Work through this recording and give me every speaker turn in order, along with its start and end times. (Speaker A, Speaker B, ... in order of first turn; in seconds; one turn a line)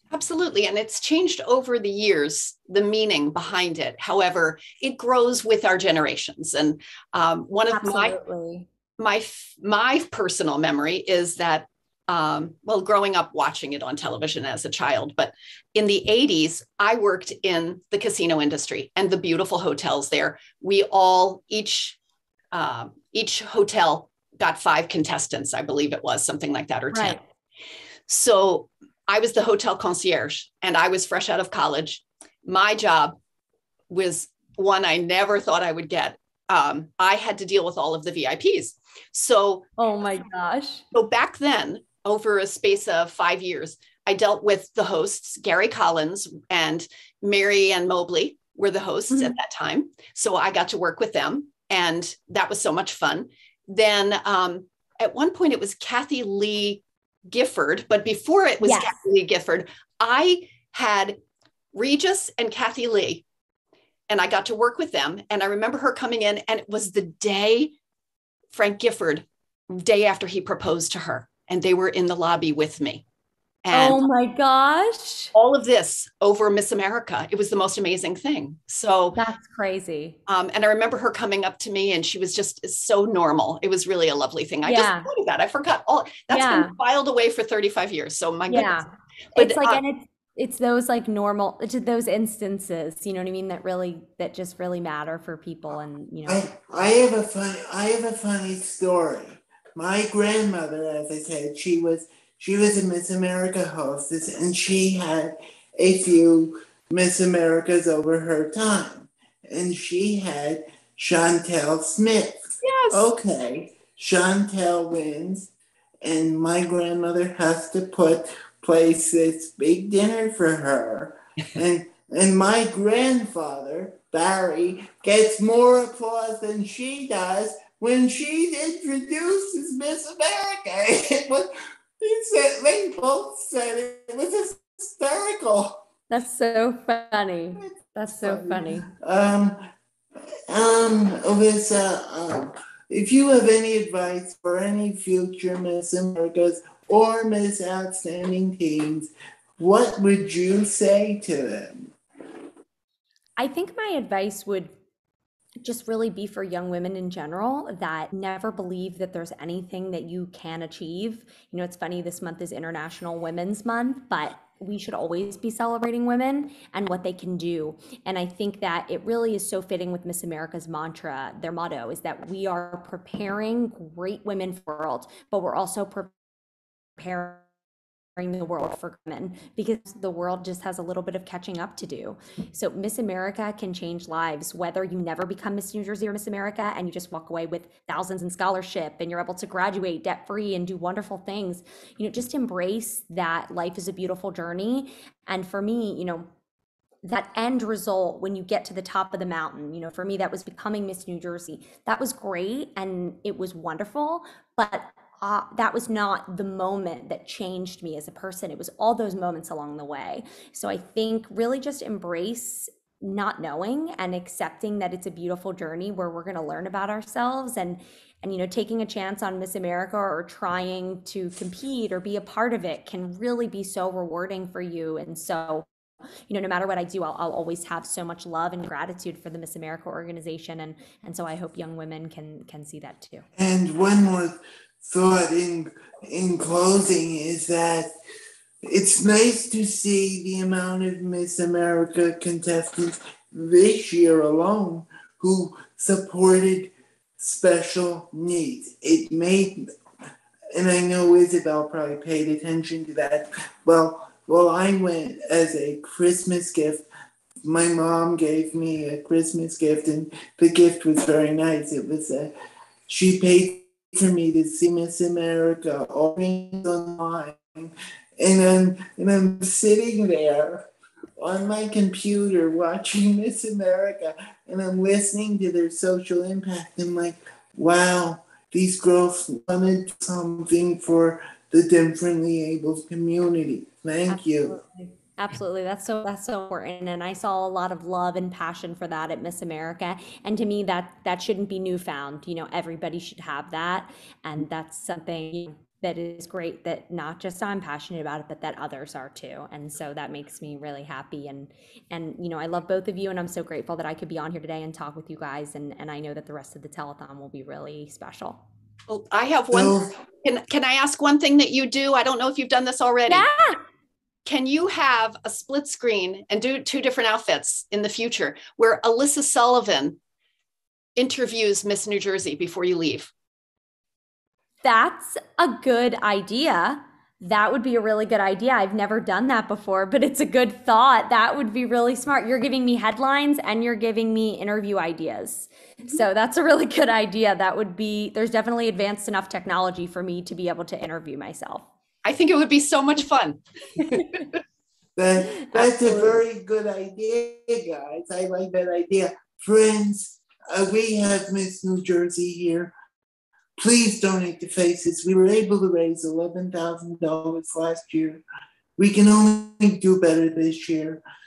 Speaker A: 0.1-8.2
Speaker B: 7.7-8.7
Speaker A: 9.0-22.0
Speaker A: 22.5-27.2
Speaker B: 26.9-27.2
Speaker A: 28.1-33.2
Speaker A: 33.9-39.7
Speaker B: 39.8-40.8
Speaker A: 40.9-61.2
Speaker B: 49.1-49.4
Speaker B: 58.6-59.0
Speaker A: 61.7-63.2
Speaker A: 64.1-67.8
Speaker A: 68.5-73.0
Speaker A: 73.6-74.0
Speaker B: 73.7-75.3
Speaker A: 75.3-79.2
Speaker B: 79.2-80.2
Speaker A: 80.3-89.8
Speaker B: 84.7-85.1
Speaker B: 86.3-86.8
Speaker B: 88.5-96.5
Speaker C: 96.3-115.5
Speaker A: 112.6-113.1
Speaker C: 116.0-135.8
Speaker B: 136.1-138.9
Speaker C: 137.6-139.7
Speaker C: 140.5-151.9
Speaker B: 153.4-154.7
Speaker B: 155.6-176.1
Speaker B: 177.0-177.4
Speaker B: 178.2-196.3
Speaker B: 197.0-225.7
Speaker B: 226.3-233.3
Speaker C: 233.4-237.9
Speaker C: 238.6-249.7
Speaker C: 250.5-256.9
Speaker C: 257.4-262.3
Speaker C: 262.9-284.6
Speaker B: 284.1-308.4
Speaker A: 308.9-313.3
Speaker C: 309.5-309.9
Speaker B: 313.1-313.6
Speaker A: 314.2-320.0
Speaker A: 321.0-323.1
Speaker B: 324.6-341.7
Speaker A: 342.0-344.4
Speaker C: 345.0-352.7
Speaker B: 345.4-346.2
Speaker C: 353.6-358.2
Speaker C: 358.8-361.0